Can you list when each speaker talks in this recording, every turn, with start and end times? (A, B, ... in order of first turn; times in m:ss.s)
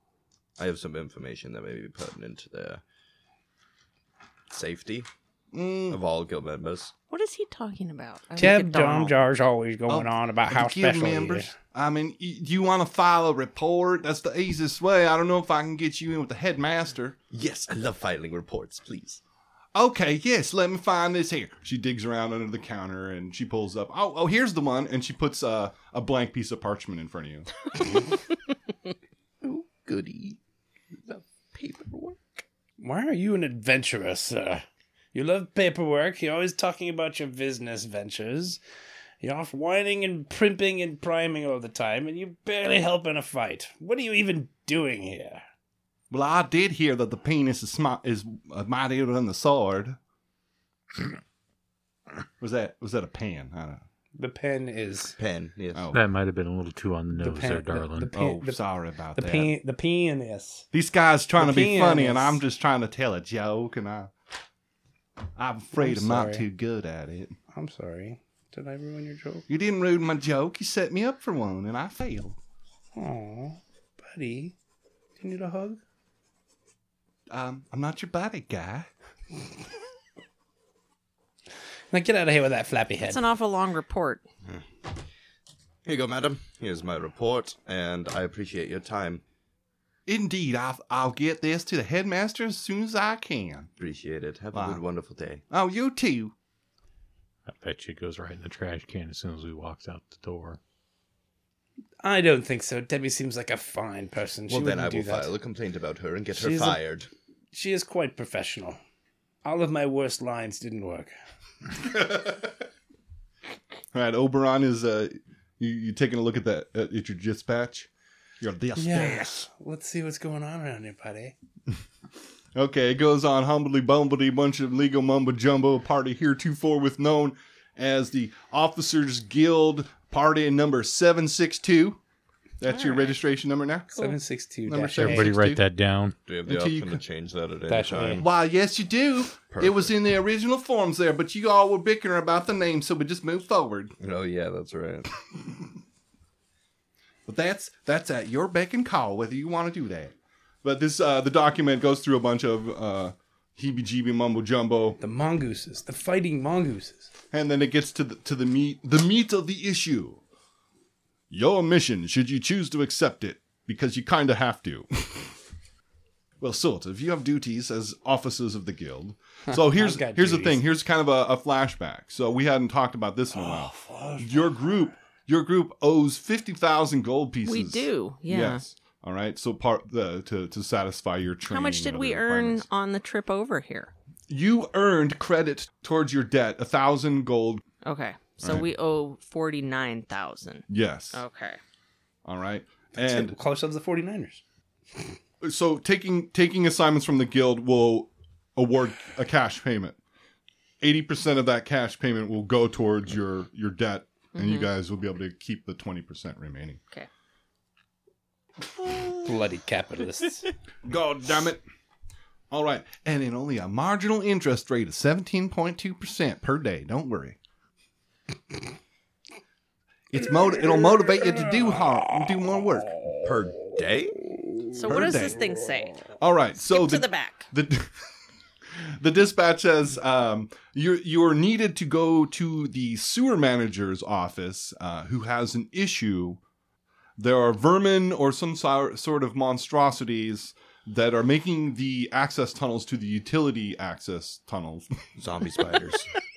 0:00.6-0:02.8 A
0:04.5-0:05.1 A
0:05.5-0:06.0 B
0:05.9-0:06.9 A
0:07.1-0:09.2 C
0:08.4-0:11.5 D
0:09.9-0:17.2 B
0:17.3-0:19.2 A
0:19.8-0:27.5 B
0:29.4-0:30.4 A
0:31.1-0:32.2 A
0:32.8-0:38.6 D
0:39.2-0:45.4 D
0:46.1-0:50.0 B
0:52.4-0:53.8 B
0:54.2-0:55.2 D
0:55.2-0:55.8 A
0:55.7-0:56.0 B
0:55.9-0:58.1 E
0:57.1-0:58.6 D
0:58.1-0:59.5 B
0:59.2-1:00.7 D
1:00.7-1:04.1 B
1:01.4-1:02.4 D
1:05.4-1:07.4 B
1:05.8-1:06.5 D
1:07.5-1:09.5 D
1:09.5-1:12.4 B
1:13.0-1:14.6 D
1:15.2-1:15.8 D
1:17.3-1:18.9 B
1:21.9-1:23.2 D
1:23.0-1:24.2 C
1:25.8-1:29.2 A
1:30.1-1:33.7 B
1:33.8-1:35.4 A
1:34.5-1:34.8 B
1:35.5-1:36.3 B
1:37.5-1:40.6 E
1:42.0-1:45.3 D
1:44.5-1:47.1 A
1:46.4-1:46.8 D
1:47.5-1:48.8 D
1:49.4-1:51.1 D
1:51.8-1:52.5 B
1:53.9-1:57.9 B
1:58.4-1:59.5 B
1:58.8-2:01.4 D
2:02.6-2:12.0 B
2:12.6-2:14.0 B
2:12.7-2:13.2 C
2:14.0-2:15.4 D
2:14.7-2:15.6 B
2:15.0-2:16.2 E
2:16.3-2:18.3 A
2:16.5-2:17.0 B
2:17.7-2:18.2 D
2:18.2-2:24.0 B
2:19.5-2:19.9 A
2:24.0-2:25.1 A
2:27.3-2:35.0 B
2:35.0-2:37.1 D
2:37.3-2:40.2 B
2:41.3-2:45.4 B
2:46.4-3:02.7 B
2:49.5-2:50.6 D
2:53.3-2:54.5 D
2:57.4-2:58.6 C
3:01.5-3:03.9 C
3:04.3-3:07.6 B
3:07.8-3:11.6 C
3:08.4-3:08.7 B
3:10.7-3:11.2 B
3:12.2-3:13.4 B
3:13.0-3:14.4 D
3:15.4-3:20.0 B
3:20.8-3:26.8 B
3:24.4-3:24.7 C
3:29.2-3:30.5 D
3:30.8-3:31.6 B
3:32.5-3:37.4 B
3:40.1-3:42.9 B
3:43.2-3:44.3 A
3:44.8-3:47.5 C
3:44.9-3:45.5 B
3:46.2-3:47.9 B
3:48.8-3:56.4 B
3:57.2-4:04.9 B
4:05.2-4:06.1 A